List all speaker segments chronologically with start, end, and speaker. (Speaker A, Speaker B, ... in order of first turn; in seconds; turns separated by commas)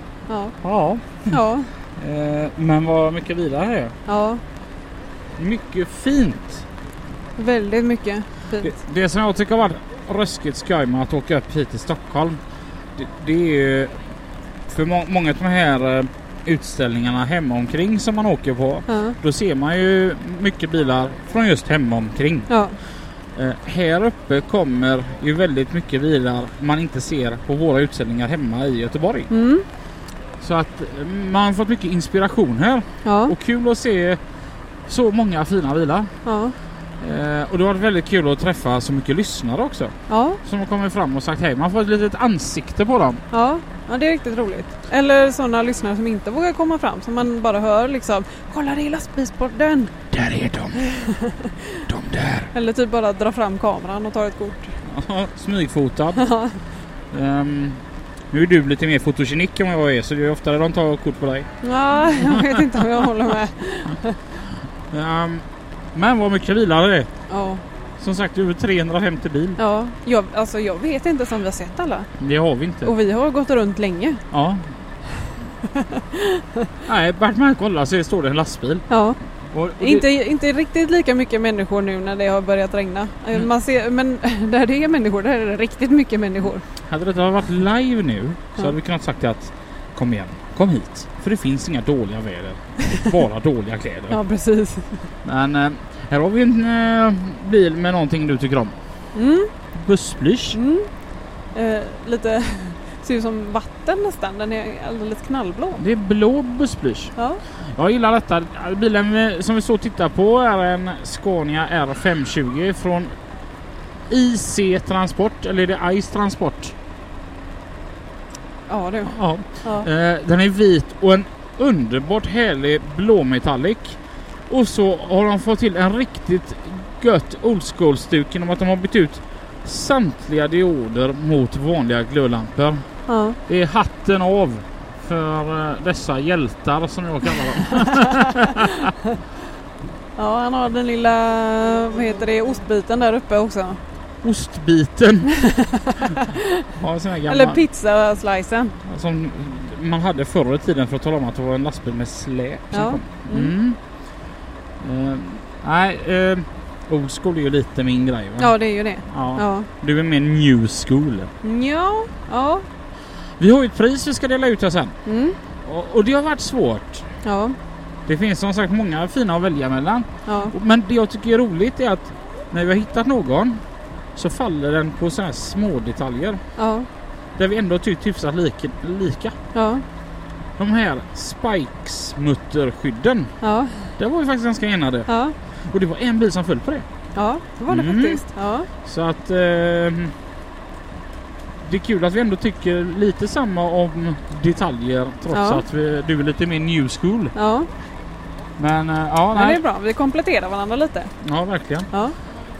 Speaker A: 0.3-0.6, Speaker B: 0.6-1.4, Speaker A: 1.3-1.7, Speaker B: 1.9-3.9, Speaker A: 4.1-4.4, Speaker B: 5.4-6.6, Speaker A: 7.4-8.7, Speaker B: 8.6-12.4, Speaker B: 12.9-13.9, Speaker B: 14.7-22.5, Speaker A: 18.9-19.1, Speaker A: 22.5-22.7, Speaker B: 23.3-29.3, Speaker A: 29.3-29.6, Speaker B: 30.4-34.2, Speaker A: 33.0-33.3, Speaker B: 34.9-36.1, Speaker A: 36.2-36.5, Speaker B: 37.0-43.2, Speaker A: 40.1-40.4, Speaker A: 43.3-49.9, Speaker B: 50.1-50.8, Speaker A: 50.8-51.8, Speaker B: 51.9-52.5, Speaker A: 52.5-54.7, Speaker B: 54.9-56.2, Speaker A: 56.2-56.6, Speaker B: 57.1-61.5, Speaker A: 61.6-64.2, Speaker B: 64.9-65.4, Speaker B: 65.9-67.1, Speaker A: 67.3-67.6, Speaker B: 68.0-69.6, Speaker A: 69.6-72.1, Speaker B: 72.2-72.9, Speaker A: 72.8-74.2, Speaker B: 74.3-74.7, Speaker A: 75.7-76.7, Speaker B: 76.8-78.8, Speaker A: 78.9-79.2, Speaker B: 79.5-80.0, Speaker A: 79.8-86.6, Speaker B: 86.9-94.2, Speaker A: 94.1-95.1, Speaker B: 95.2-98.7, Speaker A: 99.1-99.5, Speaker B: 99.7-100.6, Speaker A: 100.5-100.9, Speaker A: 101.5-105.8, Speaker B: 105.8-107.1, Speaker A: 107.2-107.4, Speaker B: 107.8-113.1, Speaker B: 114.1-116.7, Speaker A: 118.7-119.9, Speaker B: 119.0-132.8, Speaker A: 133.1-133.4, Speaker B: 133.5-138.9, Speaker A: 137.9-138.4, Speaker A: 140.2-143.8, Speaker B: 144.2-145.3, Speaker A: 145.3-146.7, Speaker B: 146.8-147.6, Speaker A: 147.3-148.8, Speaker B: 148.8-153.8, Speaker A: 152.7-153.5, Speaker B: 154.8-158.5, Speaker A: 158.4-159.7, Speaker B: 159.1-161.3, Speaker A: 161.4-162.7, Speaker B: 163.4-164.9, Speaker A: 165.0-165.4, Speaker B: 165.6-167.0, Speaker A: 167.2-167.6, Speaker B: 168.1-173.6, Speaker A: 170.2-170.5, Speaker B: 174.2-176.4, Speaker A: 176.6-176.9, Speaker B: 177.4-179.3, Speaker A: 179.5-179.8, Speaker B: 180.6-183.3, Speaker A: 183.4-183.9, Speaker B: 184.0-185.1, Speaker A: 185.1-185.3, Speaker B: 185.7-186.9, Speaker A: 187.1-188.7, Speaker B: 187.7-188.2, Speaker B: 188.8-190.1, Speaker B: 191.6-197.3, Speaker A: 195.3-195.6, Speaker A: 197.3-197.7, Speaker B: 198.6-199.6, Speaker A: 199.3-201.1, Speaker B: 201.2-201.9, Speaker A: 201.9-202.2